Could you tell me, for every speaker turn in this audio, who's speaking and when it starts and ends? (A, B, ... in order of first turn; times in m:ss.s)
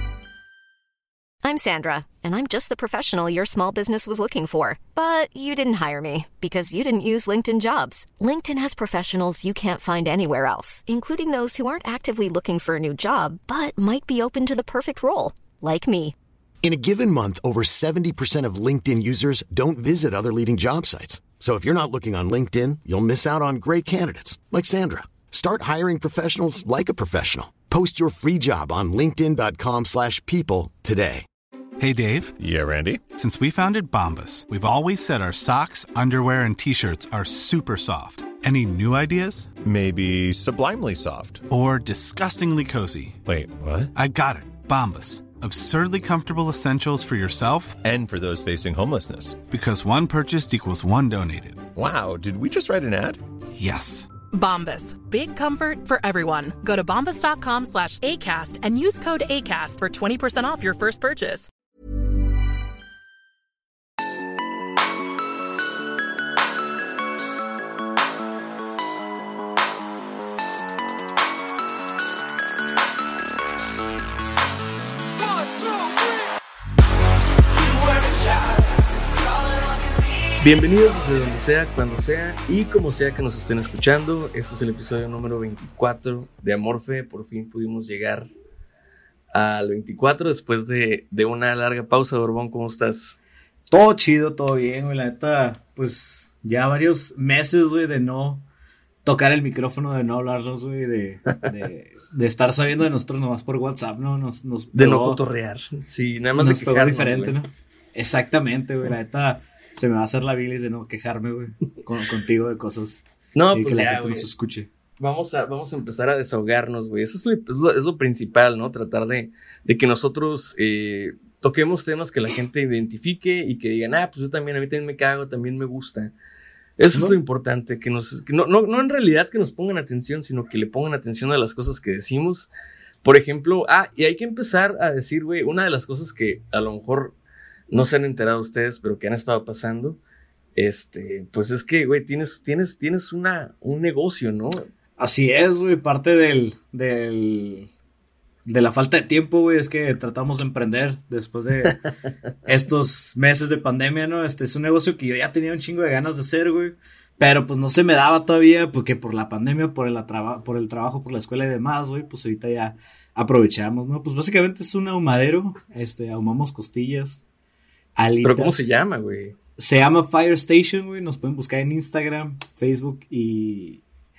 0:01.4-0:16.2 A
0:16.6-0:31.3 B
0:31.8-0:32.4 C
0:32.4-0:33.1 D
0:33.2-0:39.5 C
0:39.6-0:41.5 D
0:41.5-0:43.2 C
0:43.2-0:43.9 D
0:44.0-0:47.8 C
0:47.8-0:49.4 D
0:49.5-0:51.6 C
0:51.8-0:53.2 D
0:53.6-0:54.1 C
0:54.3-1:01.5 E
1:20.4-1:28.3 F
1:29.3-1:33.2 F
1:33.7-1:38.5 G
1:39.0-1:45.2 G
1:44.7-1:47.4 F
1:46.4-1:53.0 G
1:53.4-1:54.3 F
1:53.5-1:54.7 G
1:55.0-2:06.1 F
2:06.8-2:12.5 F
2:06.9-2:07.2 G
2:13.0-2:17.2 F
2:17.7-2:20.0 F
2:20.6-2:24.7 F
2:25.0-2:27.7 G
2:28.4-2:31.8 G
2:32.4-2:47.2 G
2:48.0-2:48.7 G
2:48.2-2:49.4 F
2:49.6-2:53.8 G